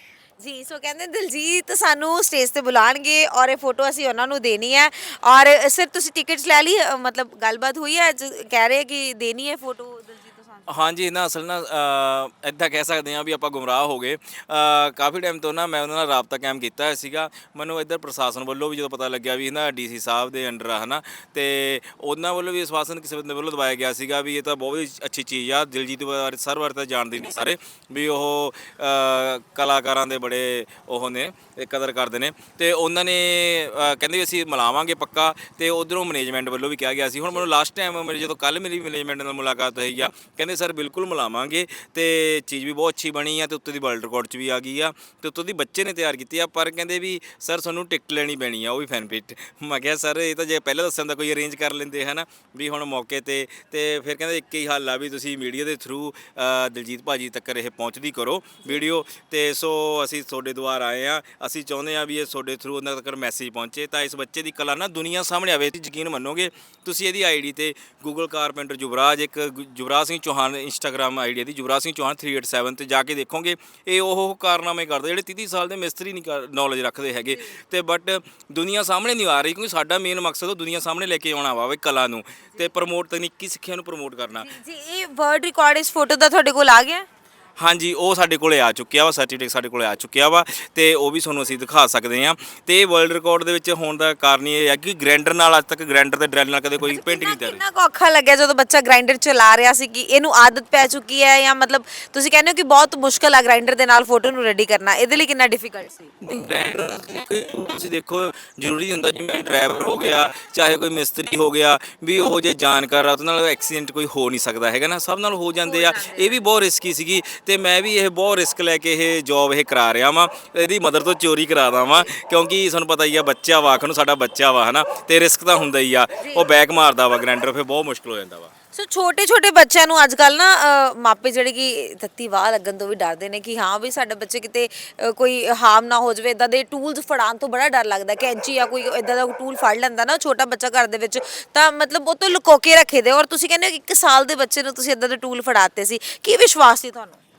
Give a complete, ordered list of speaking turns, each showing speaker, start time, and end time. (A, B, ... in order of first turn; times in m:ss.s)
0:00.4-0:10.8 A
0:10.7-1:24.5 B
1:17.3-1:17.5 A
1:24.4-1:27.0 A
1:27.6-1:37.6 B
1:36.8-1:46.1 A
1:46.2-2:08.5 B
1:55.6-1:56.4 A
2:06.2-2:06.5 A
2:08.7-2:27.2 A